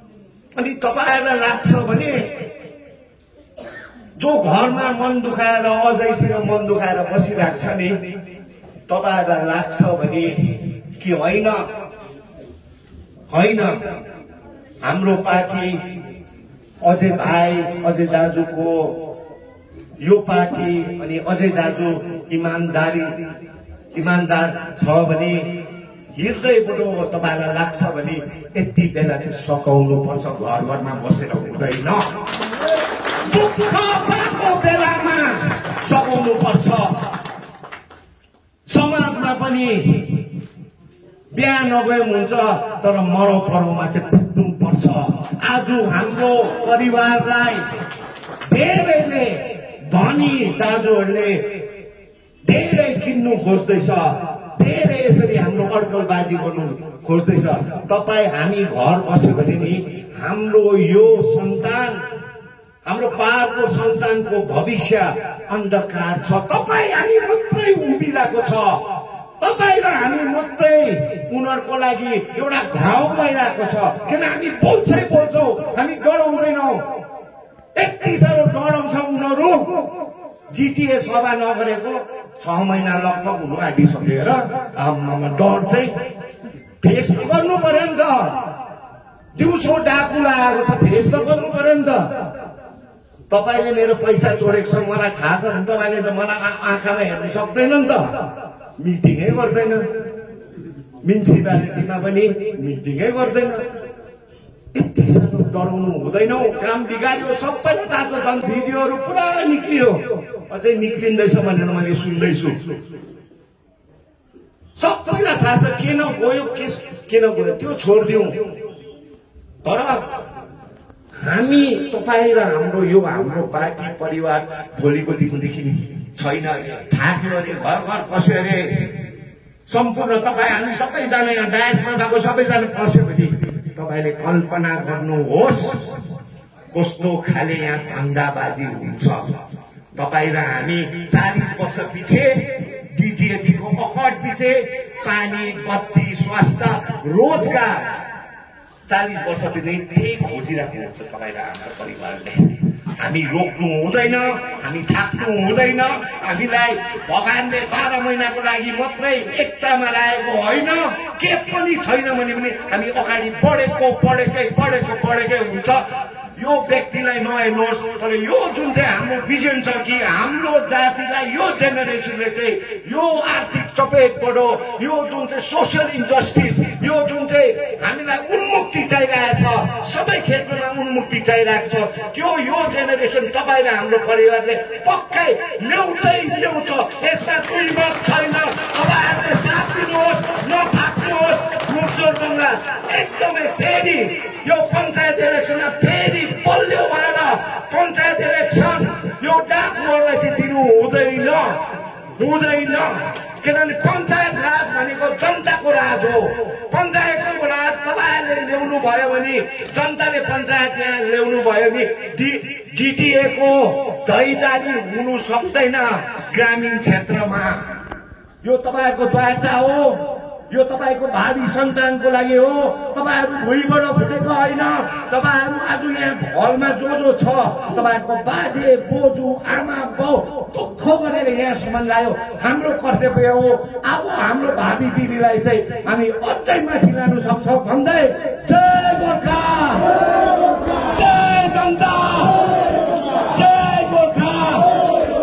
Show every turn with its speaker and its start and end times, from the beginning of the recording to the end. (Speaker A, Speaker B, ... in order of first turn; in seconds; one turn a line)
Speaker A: 0.6-2.4
Speaker A: 4.2-8.0
Speaker A: 8.9-11.7
Speaker A: 13.3-13.8
Speaker A: 14.8-15.9
Speaker A: 16.8-19.1
Speaker A: 20.0-23.2
Speaker A: 23.9-32.2
Speaker A: 33.2-37.1
Speaker A: 38.7-40.3
Speaker A: 41.3-47.7
Speaker A: 48.5-51.6
Speaker A: 52.5-62.0
Speaker A: 62.9-68.9
Speaker A: 69.4-76.8
Speaker A: 77.8-79.9
Speaker A: 80.5-86.0
Speaker A: 86.8-88.5
Speaker A: 89.3-92.1
Speaker A: 93.3-99.8
Speaker A: 101.0-103.6
Speaker A: 104.7-112.7
Speaker A: 114.8-118.4
Speaker A: 119.6-120.1
Speaker A: 121.2-129.0
Speaker A: 129.7-135.9
Speaker A: 136.7-139.4
Speaker A: 139.9-148.0
Speaker A: 148.9-165.8
Speaker A: 166.4-201.6
Speaker A: 202.2-217.7
Speaker A: 218.4-240.0
Speaker A: 240.8-242.6
Speaker A: 243.3-244.8